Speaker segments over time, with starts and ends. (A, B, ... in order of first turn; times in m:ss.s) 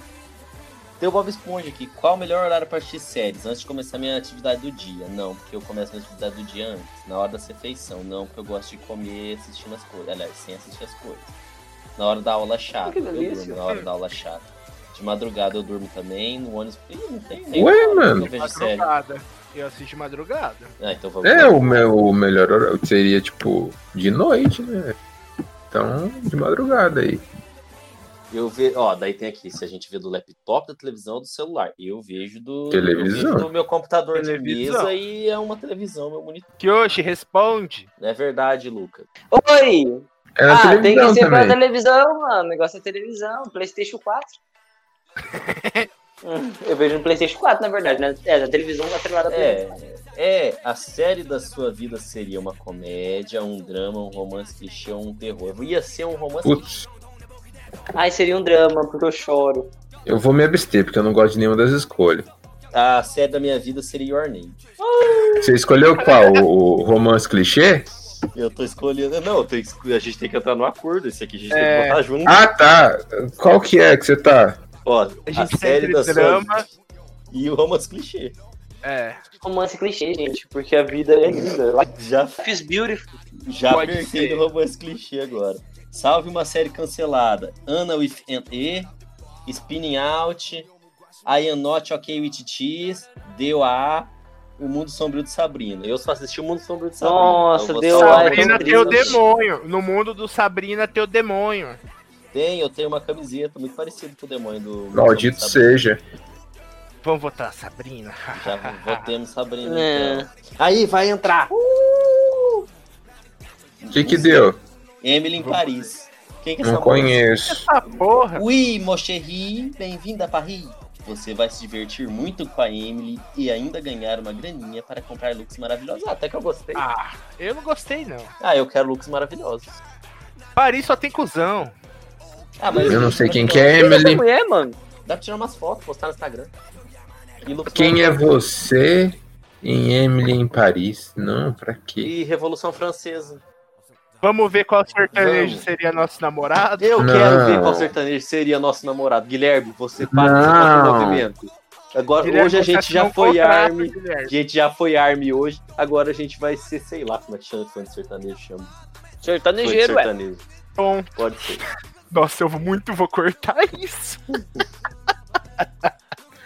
0:01.0-0:11.3 A
0:12.0-0:18.9 A
0:12.8-0:13.6 B
0:17.5-0:18.3 C
0:18.4-0:20.7 D
0:20.8-0:21.8 A
0:21.2-0:25.0 C
0:25.7-0:27.2 C
0:28.3-0:36.4 A
0:32.7-0:33.5 C
0:34.1-0:34.9 D
0:36.6-0:37.9 D
0:38.0-0:39.1 A
0:39.3-0:44.4 B
0:40.4-0:41.6 C
0:45.4-0:45.9 D
0:46.2-0:49.6 B
0:49.3-0:56.8 A
0:56.4-0:56.8 C
0:57.9-0:59.7 B
1:00.0-1:02.3 C
1:02.7-1:04.6 A
1:04.8-1:05.4 B
1:05.4-1:07.9 C
1:06.0-1:06.4 D
1:08.3-1:12.4 A
1:11.5-1:12.0 D
1:12.2-1:14.6 C
1:14.8-1:16.7 A
1:15.3-1:16.6 D
1:17.3-1:18.4 A
1:18.8-1:19.2 D
1:19.4-1:21.9 B
1:21.8-1:22.4 A
1:22.4-1:23.1 B
1:23.4-1:28.9 A
1:23.7-1:24.4 D
1:29.4-1:30.7 A
1:31.2-1:39.2 A
1:37.0-1:39.2 B
1:38.0-1:41.8 D
1:42.3-1:45.7 A
1:44.9-1:46.0 C
1:47.0-1:49.1 D
1:48.4-1:52.6 A
1:49.6-1:50.3 B
1:53.8-1:57.2 A
1:53.9-1:54.6 C
1:55.4-1:55.9 D
1:56.6-1:57.6 C
1:57.5-1:58.4 D
1:58.4-2:06.8 A
2:06.7-2:08.3 D
2:08.4-2:09.8 A
2:10.6-2:11.7 D
2:12.6-2:14.1 A
2:12.7-2:14.2 C
2:13.5-2:14.8 B
2:15.0-2:16.5 A
2:17.4-2:18.4 A
2:17.7-2:22.1 C
2:22.0-2:23.4 A
2:24.2-2:27.0 D
2:25.1-2:25.7 A
2:26.8-2:38.7 A
2:27.0-2:27.9 C
2:30.0-2:31.2 C
2:32.2-2:34.3 D
2:39.2-2:40.1 B
2:39.6-2:40.4 A
2:40.8-2:41.1 D
2:41.1-2:41.6 A
2:42.1-2:44.4 D